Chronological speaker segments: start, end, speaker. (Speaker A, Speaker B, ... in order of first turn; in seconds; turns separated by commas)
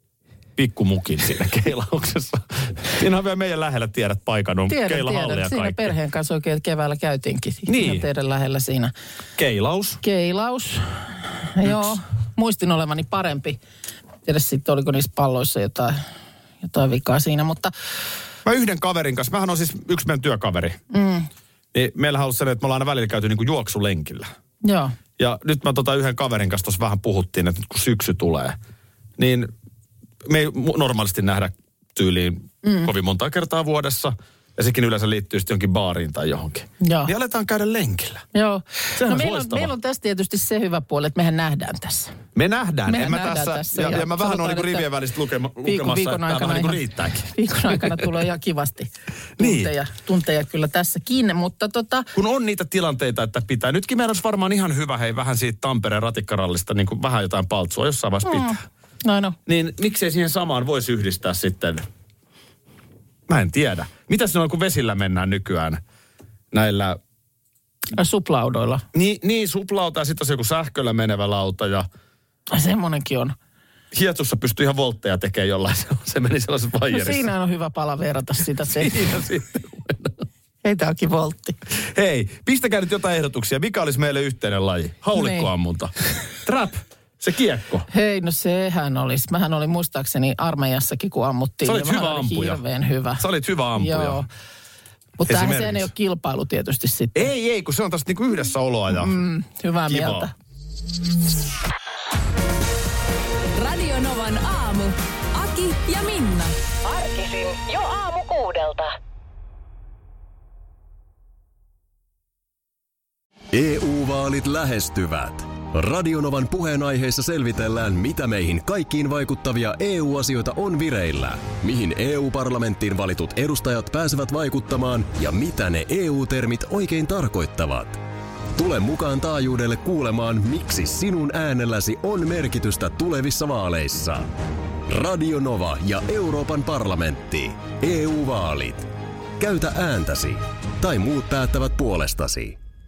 Speaker A: 0.6-5.9, Speaker B: 4.7-8.9, Speaker A: 7.7-8.1, Speaker A: 9.3-10.0, Speaker B: 10.0-13.6, Speaker A: 11.6-12.0, Speaker B: 14.2-16.0, Speaker B: 16.6-17.7, Speaker A: 18.4-20.8, Speaker B: 20.9-21.3, Speaker A: 21.7-24.3, Speaker B: 24.6-24.9, Speaker A: 25.2-28.6, Speaker A: 29.2-29.5, Speaker A: 30.2-38.2, Speaker B: 32.6-32.9, Speaker B: 36.8-37.1, Speaker B: 38.3-42.1, Speaker A: 38.9-39.7, Speaker A: 42.3-48.0, Speaker B: 42.9-44.9, Speaker B: 45.6-52.1, Speaker A: 49.4-49.7, Speaker A: 52.1-58.6, Speaker B: 58.2-59.4, Speaker A: 59.5-61.8, Speaker A: 63.3-65.8, Speaker A: 66.5-67.0, Speaker B: 67.9-68.8, Speaker A: 68.9-71.9, Speaker B: 72.5-73.3, Speaker A: 73.9-77.3, Speaker B: 76.9-79.0, Speaker A: 78.7-80.2, Speaker B: 80.6-81.6, Speaker A: 81.7-85.9, Speaker B: 85.1-85.5, Speaker A: 86.4-87.8, Speaker B: 87.9-94.3, Speaker A: 91.6-92.6, Speaker A: 93.2-94.2, Speaker B: 95.2-97.3, Speaker A: 95.3-95.9, Speaker A: 97.1-99.2, Speaker B: 98.9-100.3, Speaker A: 99.8-100.3, Speaker C: 103.5-106.5, Speaker D: 106.9-108.9, Speaker E: 113.5-128.0, Speaker E: 128.6-134.3, Speaker E: 134.9-142.6